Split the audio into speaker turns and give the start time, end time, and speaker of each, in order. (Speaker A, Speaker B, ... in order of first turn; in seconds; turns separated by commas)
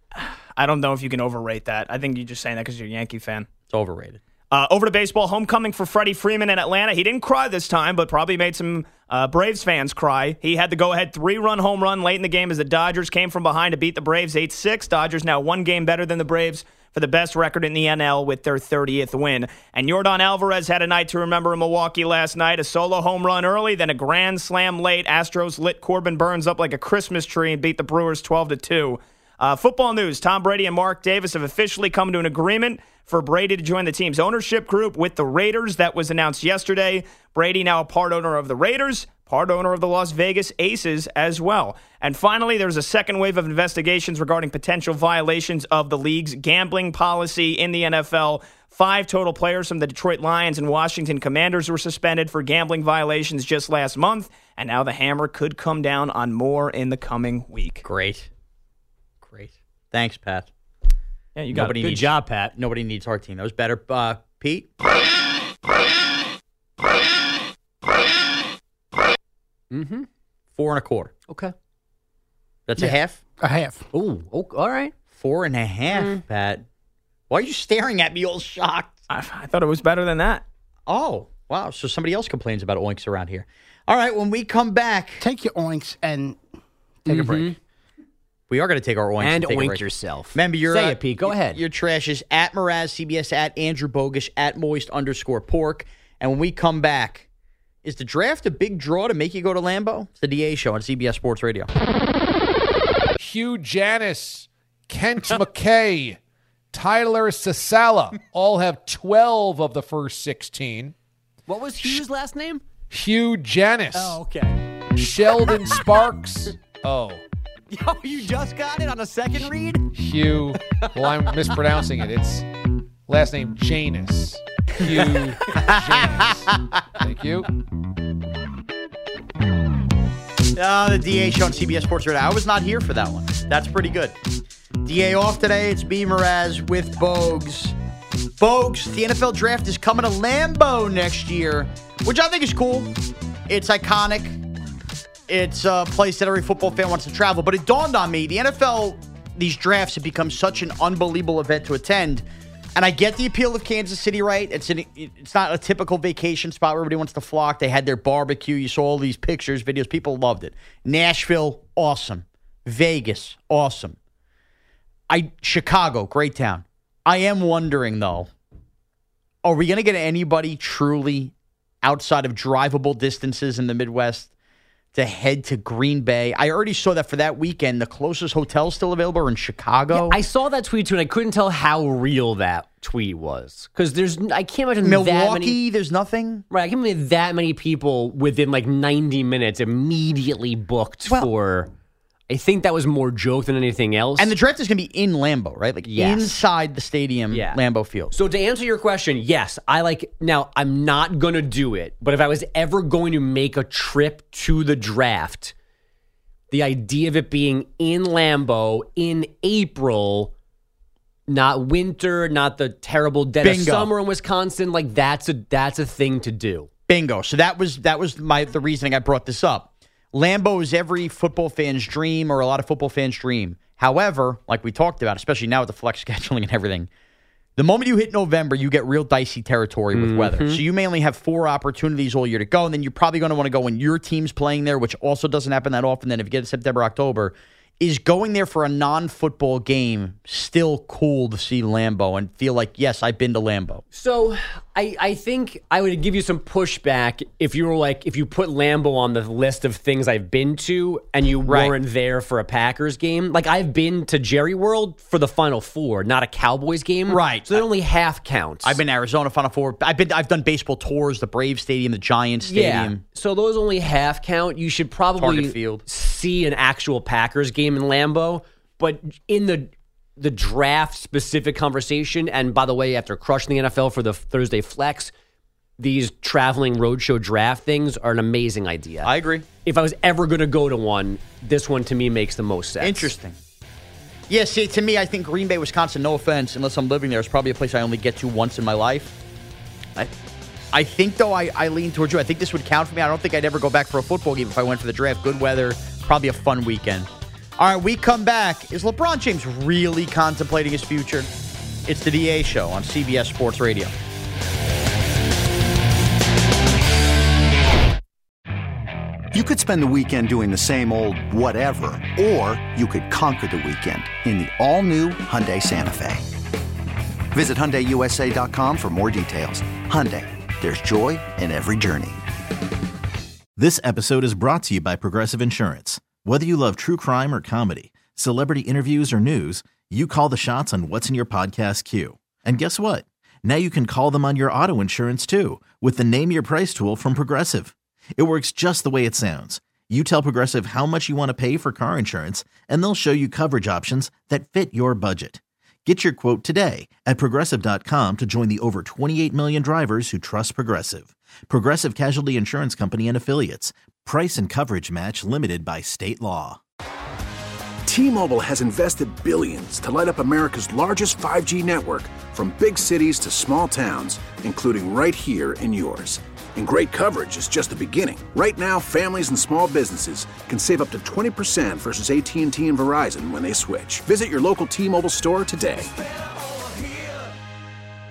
Speaker A: 0.2-3.5, Speaker B: 3.7-4.2, Speaker A: 4.5-57.8, Speaker B: 57.8-58.3, Speaker B: 59.2-60.5, Speaker A: 61.4-61.7, Speaker C: 61.5-62.5, Speaker B: 61.5-64.7, Speaker C: 69.7-70.1, Speaker B: 70.5-71.1, Speaker C: 71.3-71.5, Speaker B: 72.7-73.2, Speaker D: 72.8-73.8, Speaker C: 73.9-74.9, Speaker B: 75.2-76.7, Speaker C: 75.9-76.2, Speaker B: 77.3-79.0, Speaker A: 79.1-80.4, Speaker B: 80.9-85.2, Speaker D: 85.2-86.4, Speaker D: 87.1-87.5, Speaker C: 87.1-87.6, Speaker B: 87.1-87.4, Speaker B: 88.5-97.3, Speaker C: 89.2-91.6, Speaker B: 97.8-101.7, Speaker E: 103.2-106.2, Speaker E: 106.7-110.9, Speaker C: 111.5-112.6, Speaker E: 112.9-114.2, Speaker B: 113.9-114.6, Speaker E: 115.0-117.2, Speaker B: 117.7-119.9, Speaker E: 119.9-122.5, Speaker B: 120.8-121.2, Speaker E: 123.1-127.5, Speaker B: 125.0-126.6, Speaker B: 130.6-134.2, Speaker B: 134.8-137.8, Speaker B: 138.4-142.9, Speaker B: 143.5-144.4, Speaker B: 145.3-152.2, Speaker B: 152.8-164.0, Speaker B: 165.1-168.3, Speaker B: 169.4-174.3, Speaker B: 174.9-180.2, Speaker C: 179.9-185.6, Speaker B: 184.8-186.4, Speaker C: 186.5-191.7, Speaker C: 192.3-194.3, Speaker B: 194.2-198.1, Speaker C: 195.8-196.3, Speaker C: 197.3-197.6, Speaker C: 198.1-205.5, Speaker C: 206.5-210.3, Speaker C: 211.3-216.7, Speaker B: 213.4-213.9, Speaker B: 216.9-226.9, Speaker B: 227.6-243.8, Speaker C: 229.9-230.6, Speaker C: 243.9-258.8, Speaker B: 251.5-251.8, Speaker B: 257.1-257.6, Speaker B: 258.6-263.0, Speaker C: 262.4-275.1, Speaker B: 265.2-265.8, Speaker C: 275.8-279.1, Speaker B: 279.0-279.5, Speaker C: 279.6-283.1, Speaker B: 282.8-283.4, Speaker B: 284.3-289.1, Speaker B: 290.7-301.3, Speaker B: 301.9-303.9, Speaker F: 309.3-316.2, Speaker F: 317.3-322.2, Speaker G: 323.6-356.6, Speaker H: 357.9-375.9